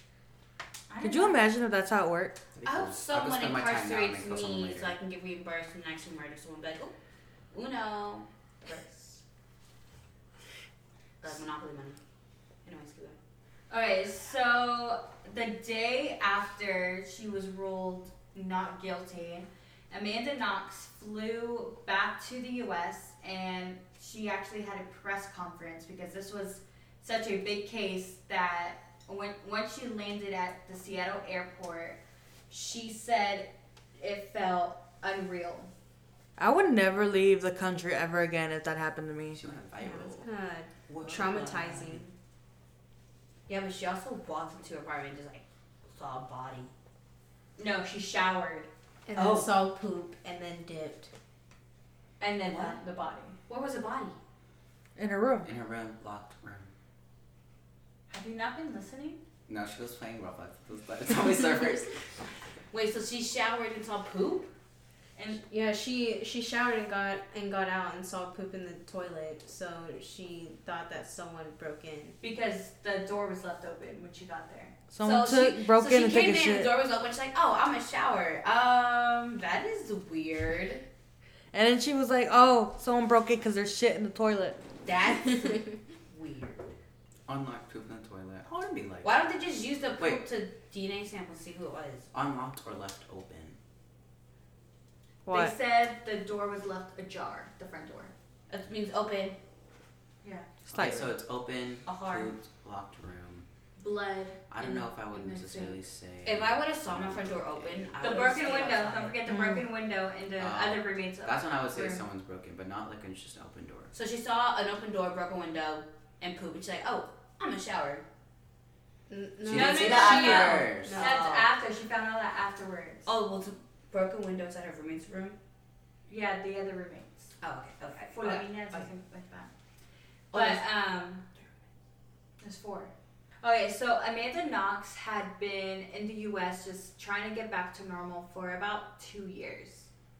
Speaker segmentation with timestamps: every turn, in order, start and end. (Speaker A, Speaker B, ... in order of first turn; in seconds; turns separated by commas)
Speaker A: 0.9-1.4, Speaker B: 1.0-2.4, Speaker C: 2.5-4.9, Speaker D: 2.6-6.9, Speaker D: 7.5-9.2, Speaker D: 11.2-12.0, Speaker D: 12.6-13.2, Speaker A: 13.7-35.7, Speaker B: 36.4-39.4, Speaker C: 39.3-40.3, Speaker E: 39.8-42.1, Speaker C: 40.9-42.0, Speaker D: 43.5-46.7, Speaker A: 47.6-49.5, Speaker E: 49.1-51.1, Speaker A: 52.2-53.4, Speaker D: 52.5-52.8, Speaker D: 53.5-54.2, Speaker B: 55.0-55.5, Speaker C: 55.4-56.7, Speaker A: 58.1-59.2, Speaker C: 59.5-62.0, Speaker D: 62.7-64.5, Speaker E: 65.4-72.2, Speaker A: 72.2-74.7, Speaker B: 74.9-76.7, Speaker D: 75.0-80.8, Speaker B: 81.5-84.6, Speaker D: 84.8-86.7, Speaker C: 87.3-89.1, Speaker D: 89.0-92.1, Speaker C: 92.1-93.6, Speaker B: 95.2-95.5, Speaker A: 95.3-98.1, Speaker D: 98.5-99.4, Speaker A: 100.2-100.5, Speaker B: 100.7-101.1, Speaker C: 100.7-103.4, Speaker A: 101.9-102.2, Speaker D: 101.9-102.3, Speaker A: 103.8-105.8, Speaker C: 104.5-108.2, Speaker D: 106.2-109.2, Speaker A: 108.0-112.0, Speaker B: 109.3-109.7, Speaker C: 110.4-113.9, Speaker D: 113.9-118.0, Speaker E: 119.1-121.1, Speaker C: 119.4-121.0, Speaker A: 119.5-123.1, Speaker D: 119.6-121.5, Speaker D: 123.0-125.3, Speaker A: 126.1-127.3, Speaker D: 127.4-128.9, Speaker A: 128.1-129.5, Speaker A: 130.3-131.2, Speaker D: 130.3-130.6, Speaker A: 132.4-139.9